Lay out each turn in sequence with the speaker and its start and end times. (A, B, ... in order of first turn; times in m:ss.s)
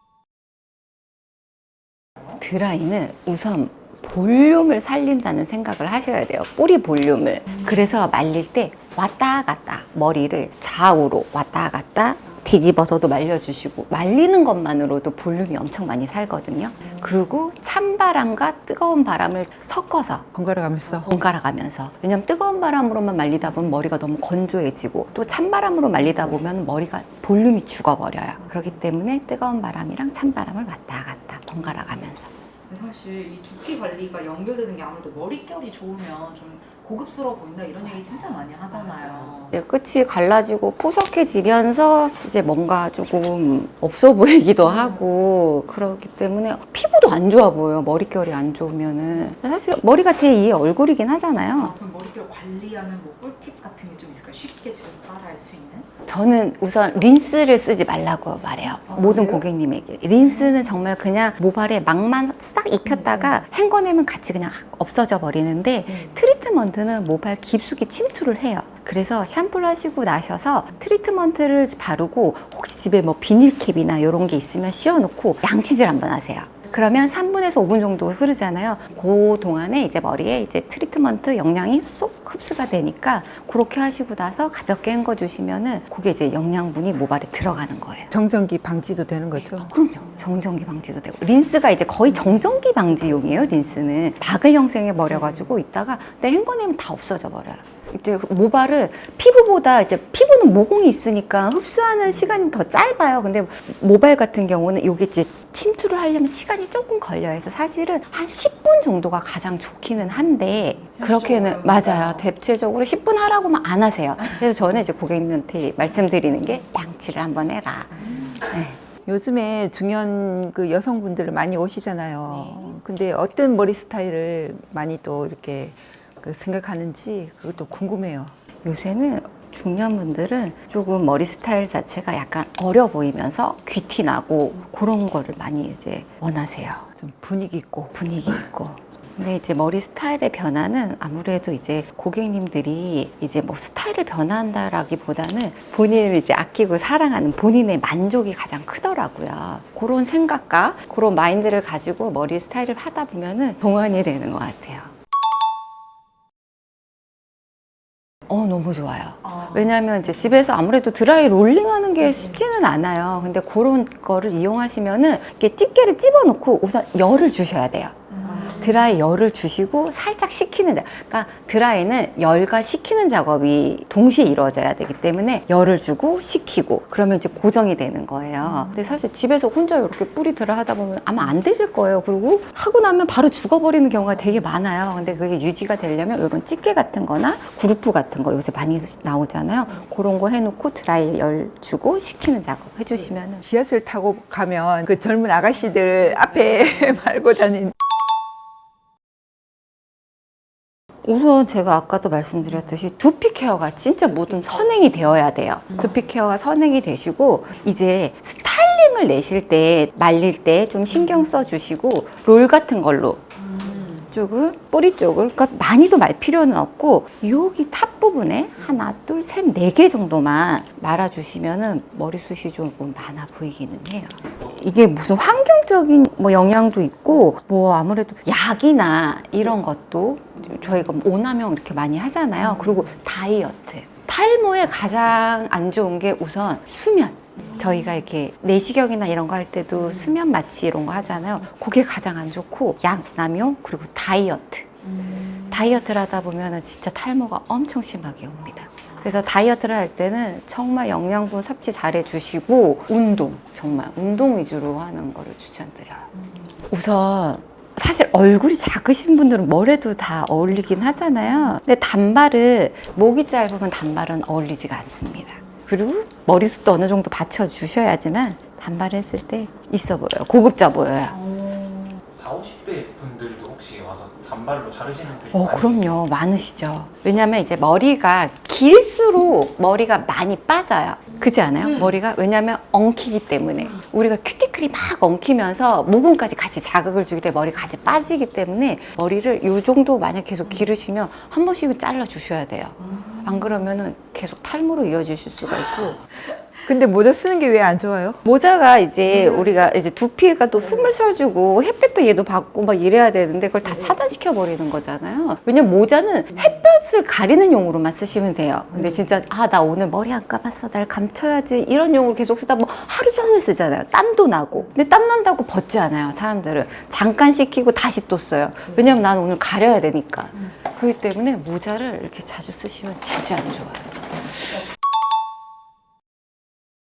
0:02.4-0:20.3 A
0:20.3-0:21.1 B
0:21.0-0:32.3 A
0:32.7-0:39.5 C
0:37.9-0:51.7 A
0:44.6-0:45.0 C
0:51.6-0:55.9 C
0:56.1-1:28.1 A
0:58.9-0:59.4 C
1:28.1-1:29.7 B
1:29.4-1:58.8 A
1:51.0-1:52.2 C
1:59.0-2:08.3 B
2:02.2-2:02.8 A
2:08.6-2:16.8 A
2:17.0-2:17.9 B
2:17.9-2:34.9 A
2:38.3-3:13.4 A
2:39.2-2:39.7 C
2:48.2-2:48.7 C
3:13.4-3:17.7 B
3:21.0-3:33.2 A
3:33.4-3:34.1 C
3:34.1-4:04.7 A
4:04.9-4:05.5 C
4:05.5-4:16.1 A
4:16.7-4:31.2 A
4:31.3-4:32.0 C
4:32.1-4:36.0 D
4:35.3-4:56.0 A
4:52.9-4:53.5 C
4:56.6-4:58.2 B
4:58.2-5:24.5 A